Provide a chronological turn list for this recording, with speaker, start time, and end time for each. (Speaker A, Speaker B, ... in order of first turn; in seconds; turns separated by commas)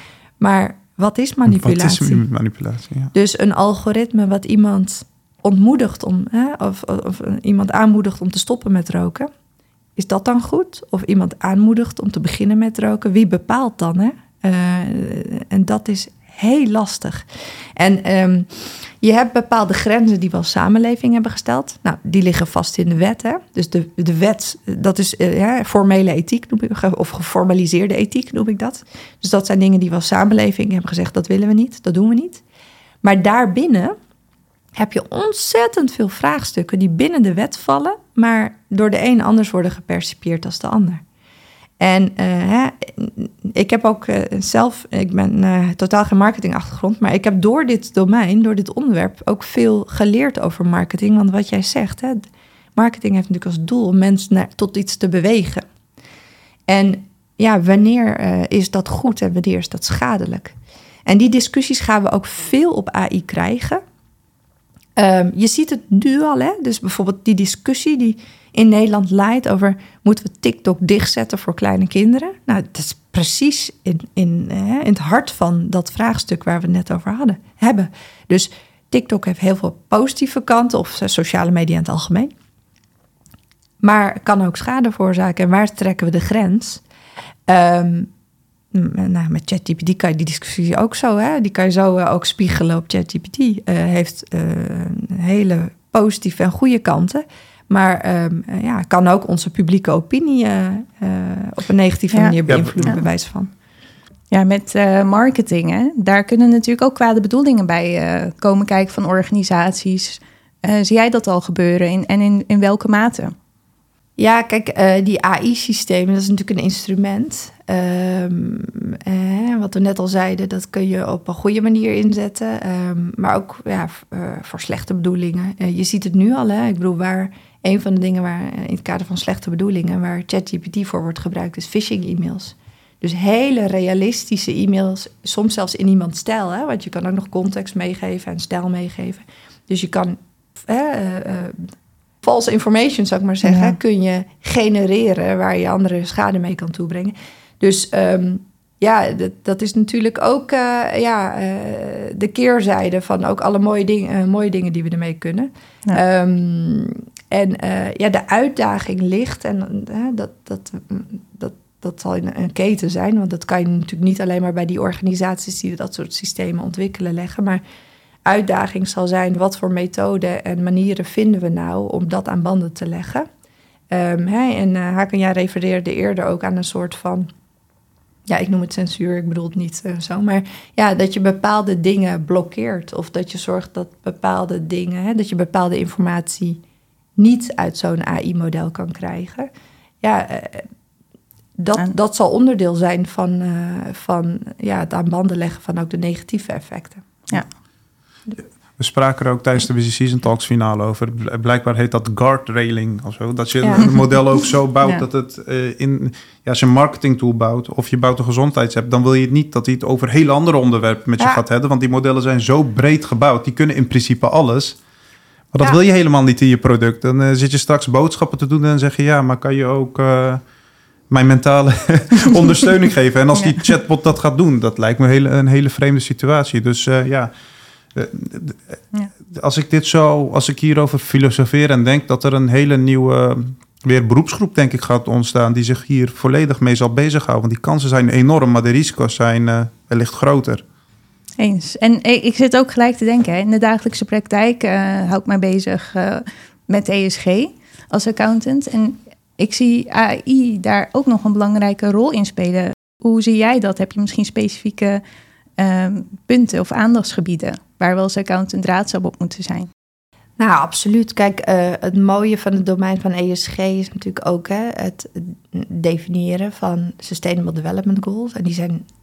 Speaker A: 0.4-2.2, Speaker B: 1.5-3.1, Speaker A: 3.1-9.3, Speaker A: 10.0-17.2, Speaker A: 17.8-32.4, Speaker A: 33.0-34.0, Speaker A: 34.8-41.0, Speaker A: 41.8-55.6, Speaker A: 56.7-63.8, Speaker A: 65.0-82.3, Speaker A: 83.8-86.8, Speaker A: 87.5-88.1, Speaker A: 88.7-103.5, Speaker C: 102.1-103.0, Speaker B: 102.5-103.0, Speaker C: 104.3-113.3, Speaker A: 114.2-141.7, Speaker A: 142.2-167.6, Speaker C: 143.4-143.8, Speaker A: 168.3-173.3, Speaker A: 173.9-177.3, Speaker A: 178.3-186.6, Speaker A: 187.2-189.5, Speaker A: 190.0-190.7, Speaker A: 191.6-197.1, Speaker B: 198.8-214.8, Speaker A: 203.6-203.9, Speaker B: 215.5-220.4, Speaker B: 221.1-227.3, Speaker B: 227.9-240.6, Speaker C: 241.4-255.0, Speaker C: 255.6-259.7, Speaker A: 260.4-268.9